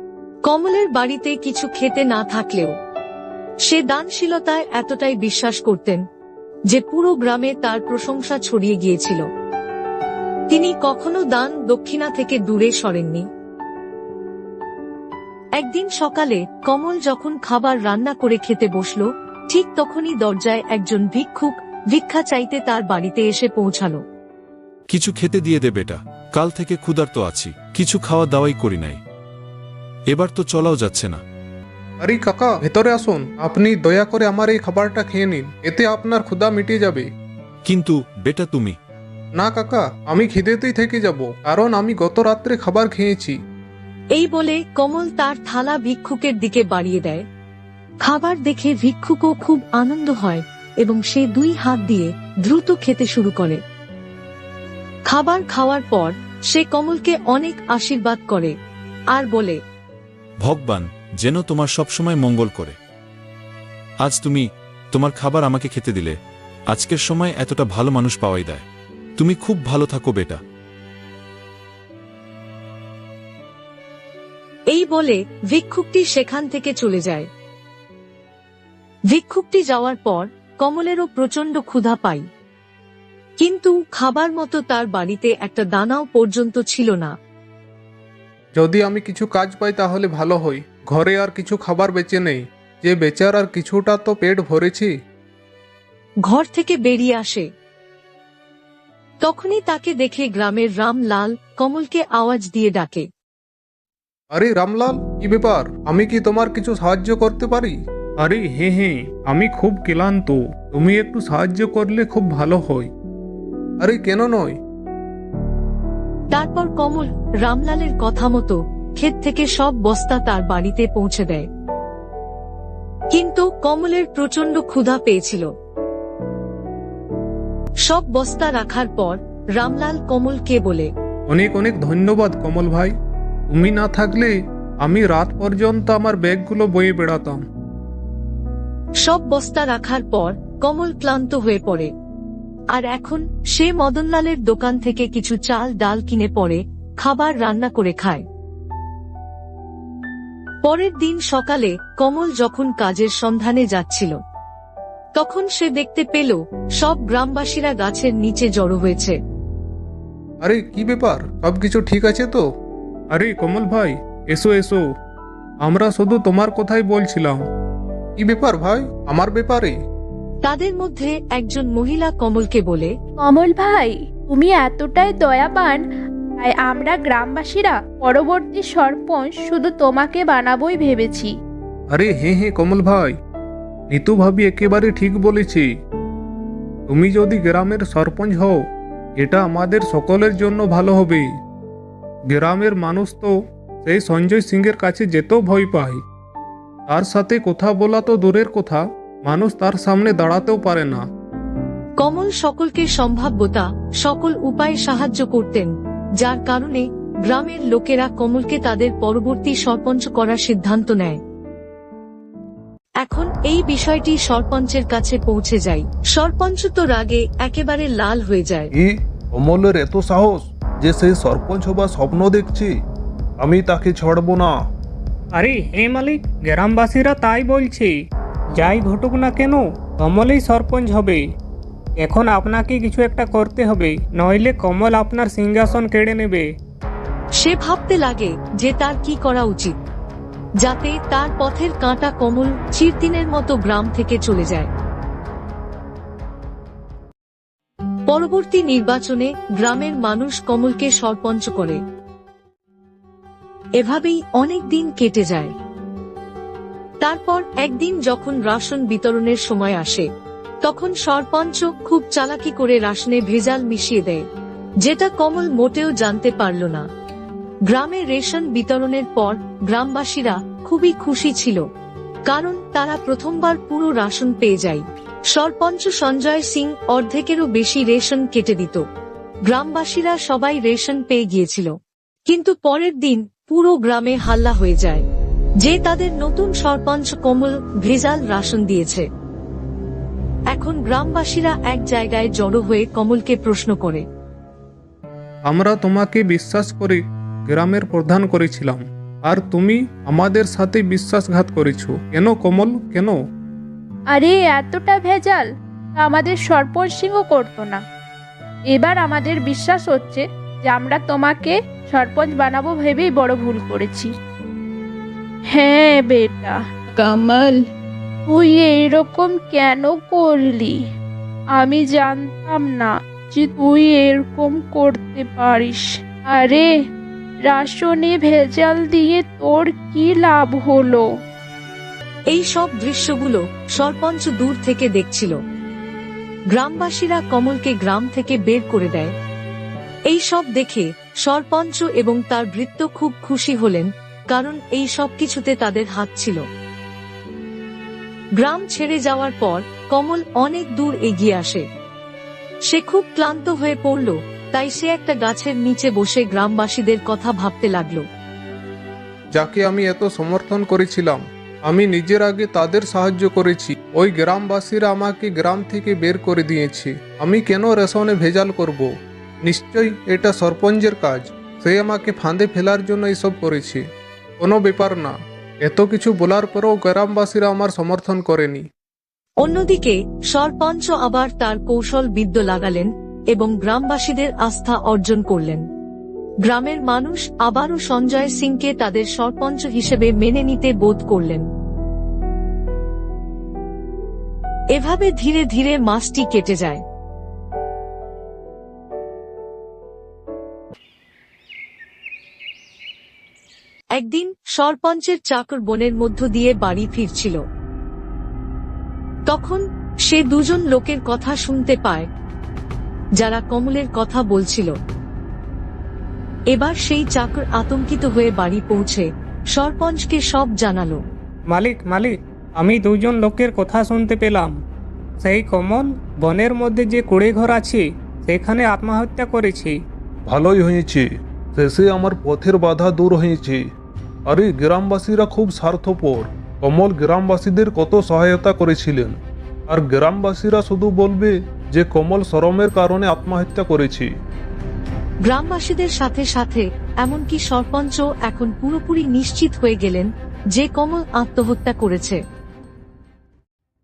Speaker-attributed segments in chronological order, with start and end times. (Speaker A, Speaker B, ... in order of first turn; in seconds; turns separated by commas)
Speaker A: 0.4-2.7, Speaker A: 3.6-6.0, Speaker A: 6.7-9.2, Speaker A: 10.5-13.2, Speaker A: 15.6-24.0, Speaker B: 24.9-29.0, Speaker B: 30.1-31.2, Speaker C: 32.0-37.0, Speaker B: 37.6-38.8, Speaker C: 39.4-43.3, Speaker A: 44.1-47.2, Speaker A: 48.0-53.6, Speaker A: 55.0-58.5, Speaker A: 59.1-59.6, Speaker B: 60.4-62.8, Speaker B: 64.0-66.2, Speaker B: 66.7-68.7, Speaker B: 69.2-70.4, Speaker A: 74.7-77.3, Speaker A: 79.1-82.2, Speaker A: 83.4-87.1, Speaker C: 88.5-94.9, Speaker A: 96.2-97.5, Speaker A: 99.2-103.1, Speaker C: 104.3-112.9, Speaker C: 113.8-114.5, Speaker A: 116.3-121.5, Speaker A: 123.1-125.5, Speaker A: 127.8-130.9, Speaker C: 131.3-132.9, Speaker C: 133.5-137.4, Speaker A: 139.0-141.9, Speaker A: 142.7-148.2, Speaker A: 150.6-154.2, Speaker A: 155.2-159.2, Speaker C: 160.4-162.4, Speaker C: 163.1-164.8, Speaker C: 165.6-167.4, Speaker C: 168.2-169.7, Speaker A: 170.4-172.9, Speaker D: 173.2-175.8, Speaker D: 176.4-181.3, Speaker C: 181.9-183.1, Speaker C: 183.9-185.7, Speaker C: 186.9-188.6, Speaker C: 189.2-191.3, Speaker C: 192.3-193.3, Speaker C: 193.8-196.0, Speaker C: 196.9-201.0, Speaker A: 202.0-211.2, Speaker A: 213.0-218.7, Speaker E: 218.7-222.7, Speaker E: 223.4-224.6, Speaker F: 225.3-227.9, Speaker F: 228.6-231.2, Speaker F: 232.0-236.4, Speaker A: 237.4-239.8, Speaker A: 240.6-244.7, Speaker A: 248.1-251.8, Speaker A: 253.8-255.5, Speaker A: 257.0-260.1, Speaker A: 260.6-264.2, Speaker A: 264.8-266.8, Speaker A: 267.7-271.6, Speaker A: 272.3-278.8, Speaker A: 279.5-281.7, Speaker A: 282.3-285.0, Speaker A: 285.6-289.1, Speaker A: 290.5-294.0, Speaker C: 295.5-303.1, Speaker D: 304.1-307.8, Speaker D: 308.7-314.1, Speaker D: 315.5-317.6, Speaker D: 318.3-320.7, Speaker D: 321.5-326.7, Speaker D: 327.4-331.0, Speaker A: 332.3-335.4, Speaker A: 336.5-339.1, Speaker A: 340.1-346.4, Speaker A: 348.4-351.6, Speaker A: 352.7-358.0, Speaker C: 359.3-368.9, Speaker C: 369.4-373.8, Speaker C: 374.4-378.6, Speaker A: 379.4-385.6, Speaker A: 386.4-391.5, Speaker A: 394.7-396.8, Speaker A: 403.9-407.4, Speaker A: 409.3-412.1, Speaker A: 413.2-414.8, Speaker A: 416.5-421.0, Speaker F: 421.5-424.6, Speaker F: 425.2-429.7, Speaker E: 430.2-433.6, Speaker E: 434.2-439.2, Speaker E: 439.7-444.1, Speaker A: 445.2-452.2